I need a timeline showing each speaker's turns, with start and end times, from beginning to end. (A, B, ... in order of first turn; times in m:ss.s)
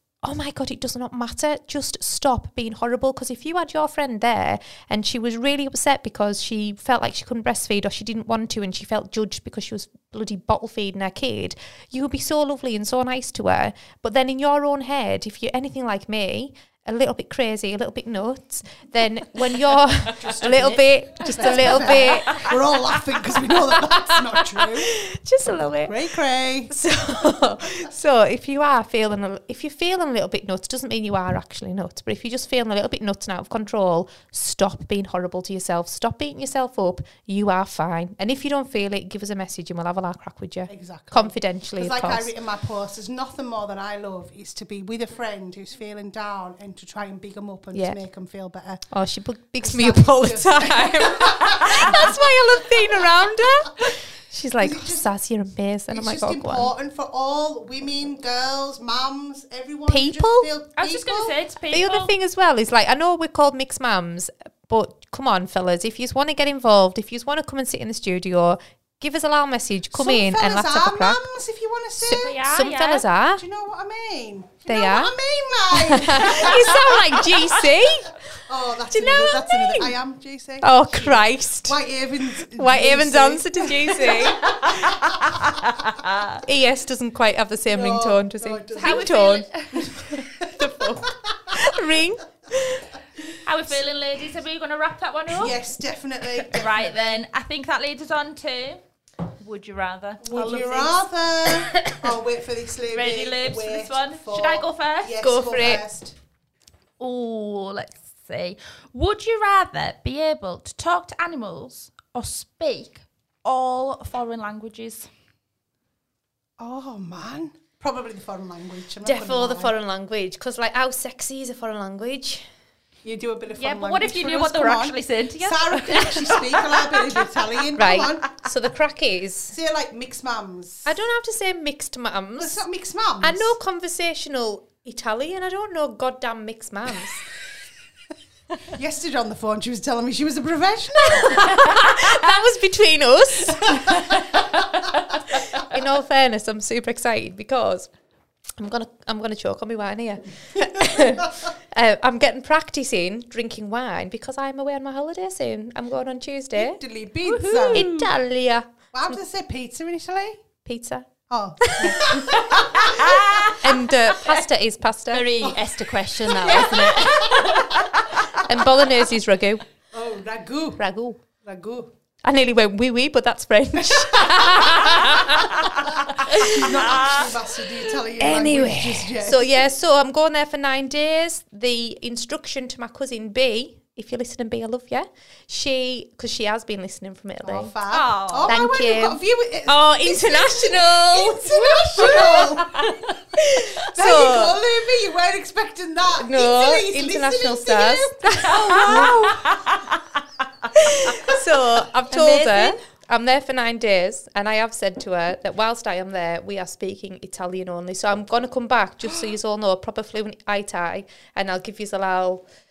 0:00.2-0:22.6 A
0:20.1-0:25.0 B
0:23.4-0:26.0 A
0:25.9-0:26.8 B
0:26.7-0:42.3 A
0:40.7-0:48.8 B
0:47.7-0:48.0 A
0:48.9-0:56.7 A
0:49.6-0:52.2 B
0:54.6-0:55.1 B
0:55.9-1:01.4 B
0:59.9-1:00.5 A
1:00.8-1:02.1 C
1:01.7-1:11.3 A
1:09.9-1:12.3 B
1:12.0-1:13.4 A
1:12.1-1:13.0 C
1:13.3-1:17.0 B
1:14.7-1:15.1 A
1:15.7-1:18.2 A
1:18.5-1:25.4 B
1:18.9-1:20.0 A
1:20.6-1:21.8 A
1:22.5-1:24.9 A
1:24.6-1:26.4 C
1:26.4-1:32.9 A
1:27.7-1:31.7 B
1:28.8-1:30.0 C
1:33.4-1:35.6 C
1:35.4-1:36.9 B
1:36.5-1:38.8 C
1:39.4-1:41.1 C
1:40.2-1:46.1 B
1:42.9-1:45.2 C
1:45.2-1:45.8 A
1:47.0-1:55.1 C
1:56.6-1:59.7 B
1:59.0-2:02.5 A
2:03.0-2:08.4 B
2:03.6-2:07.2 C
2:07.8-2:09.6 A
2:09.5-2:10.9 B
2:10.8-2:12.6 A
2:12.4-2:13.5 B
2:13.2-2:17.2 A
2:18.7-2:21.8 B
2:21.2-2:24.0 A
2:23.5-2:24.2 B
2:25.3-2:27.9 A
2:28.6-2:36.8 A
2:36.6-2:38.0 B
2:37.2-2:38.0 C
2:37.7-2:39.2 A
2:38.9-2:40.4 B
2:40.6-2:41.1 A
2:41.3-2:43.6 B
2:41.7-2:42.4 A
2:42.3-2:43.5 C
2:43.6-2:45.3 A
2:45.1-2:47.7 D
2:45.4-2:45.7 B
2:46.2-2:47.8 B
2:48.4-2:49.6 A
2:49.9-2:50.8 B
2:50.8-2:51.2 A
2:51.4-2:51.9 B
2:52.2-2:57.2 A
2:55.9-2:59.6 B
2:58.2-3:07.7 A
3:07.4-3:13.0 B
3:07.9-3:08.6 C
3:08.5-3:14.6 A
3:13.8-3:19.3 B
3:16.2-3:19.5 A
3:18.5-3:19.8 C
3:20.7-3:32.4 A
3:22.1-3:22.8 D